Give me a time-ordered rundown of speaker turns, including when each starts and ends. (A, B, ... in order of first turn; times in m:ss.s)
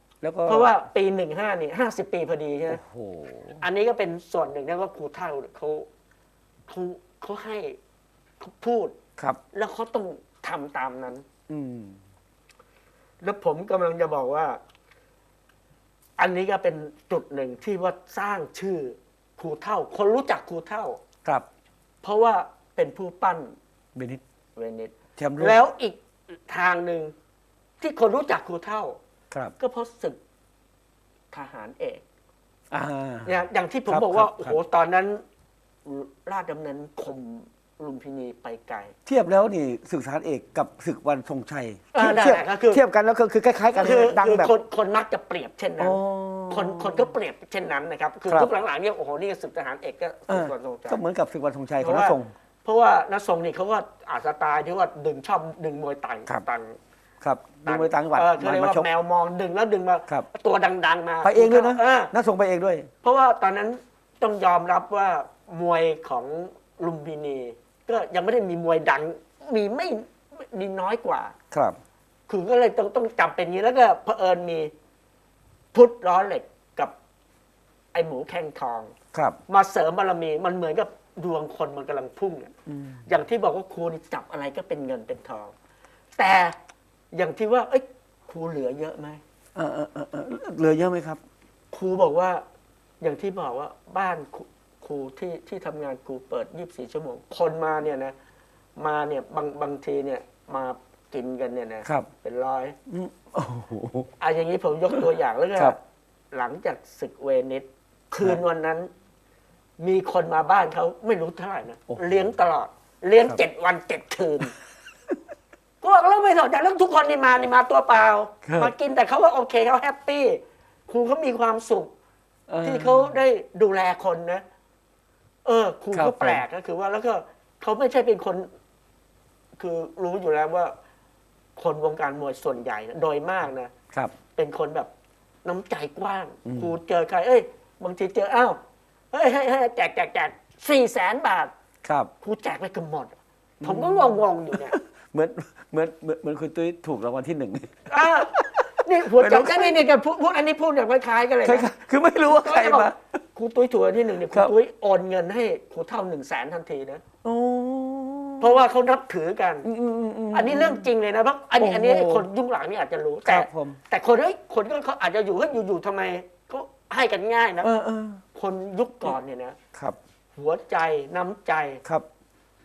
0:00.2-0:00.7 A
0:00.4-0:02.8 B
0:02.7-0:03.6 A
0:03.6-0:05.9 B
0:06.7-0:07.8 B
0:08.4-0:09.0 B
0:09.5-0:11.2 B
0:11.5-0:12.0 A
0:13.2-0:14.6 B
0:16.2-0:21.0 B
0:22.0-0:23.5 B
0:23.9-0:24.2 A
0:24.6-0:27.1 B
0:25.2-0:25.6 A
0:27.8-0:29.0 B
0:29.6-0:30.2 B
0:31.3-0:32.0 B
0:32.7-0:33.3 A
0:33.2-0:35.2 B
0:33.9-0:34.6 A
0:35.8-0:38.9 B
0:39.0-0:44.5 A
0:41.9-0:42.8 B
0:43.7-0:51.0 B
0:45.8-0:47.1 A
0:50.3-0:52.3 A
0:51.8-0:56.8 B
0:57.2-0:58.9 A
0:57.6-1:02.1 B
1:01.2-1:02.9 A
1:03.0-1:11.3 B
1:11.5-1:11.8 A
1:12.3-1:14.7 B
1:15.7-1:16.9 B
1:17.9-1:18.9 B
1:19.1-1:19.4 A
1:19.5-1:22.5 B
1:22.7-1:23.0 A
1:23.1-1:25.5 B
1:26.2-1:26.6 B
1:27.1-1:29.2 B
1:29.5-1:31.2 A
1:31.7-1:32.4 B
1:33.0-1:38.1 B
1:38.8-1:42.8 B
1:42.9-1:44.1 A
1:44.2-1:45.8 B
1:46.3-1:48.9 B
1:49.8-1:54.5 B
1:55.8-2:01.9 B
1:58.4-1:58.7 A
2:02.5-2:03.1 A
2:02.6-2:04.4 B
2:05.4-2:08.5 B
2:05.9-2:06.4 A
2:09.6-2:10.7 B
2:11.6-2:13.7 B
2:14.3-2:14.9 B
2:15.4-2:18.6 B
2:16.4-2:16.7 A
2:19.1-2:21.5 B
2:21.8-2:22.1 A
2:22.2-2:24.7 B
2:23.6-2:29.8 A
2:27.9-2:31.7 B
2:31.4-2:33.0 A
2:32.3-2:37.0 B
2:37.2-2:38.6 A
2:38.4-2:39.7 B
2:39.6-2:40.8 A
2:40.3-2:47.7 B
2:41.6-2:42.3 A
2:43.2-2:43.8 A
2:47.6-2:48.2 A
2:48.3-2:49.6 B
2:50.4-2:51.8 B